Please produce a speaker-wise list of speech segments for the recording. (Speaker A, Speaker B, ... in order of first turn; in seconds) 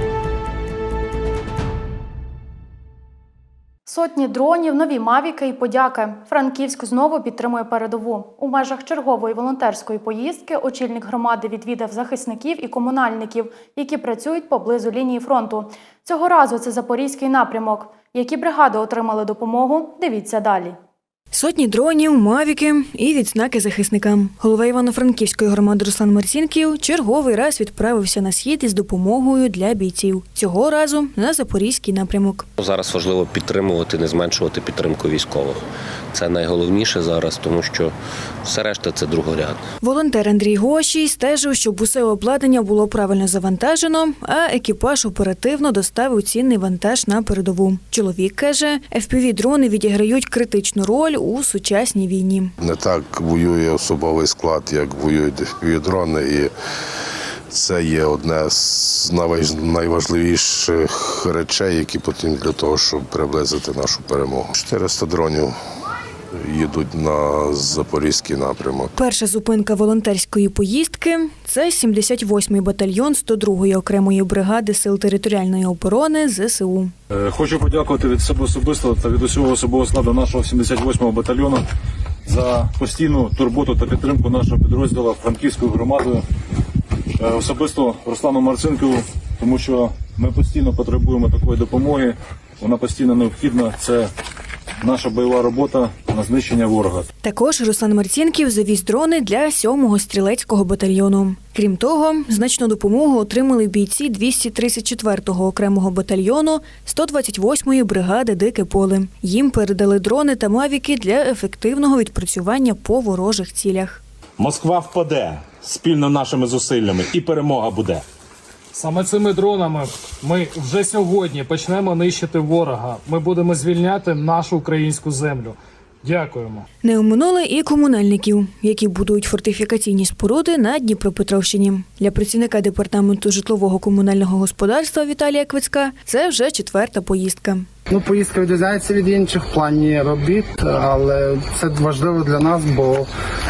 Speaker A: 3.9-20.8
Speaker B: 21.3-32.5, 39.8-52.5, 69.0-76.9, 97.2-114.0, 126.8-137.7
Speaker C: 32.6-35.6, 36.1-39.6
Speaker D: 52.6-56.5, 57.5-65.5, 66.4-68.9
Speaker E: 77.2-81.6, 82.3-86.2, 87.2-94.1, 94.8-97.0
Speaker F: 114.4-118.0
Speaker G: 118.7-126.6
Speaker H: 137.9-143.1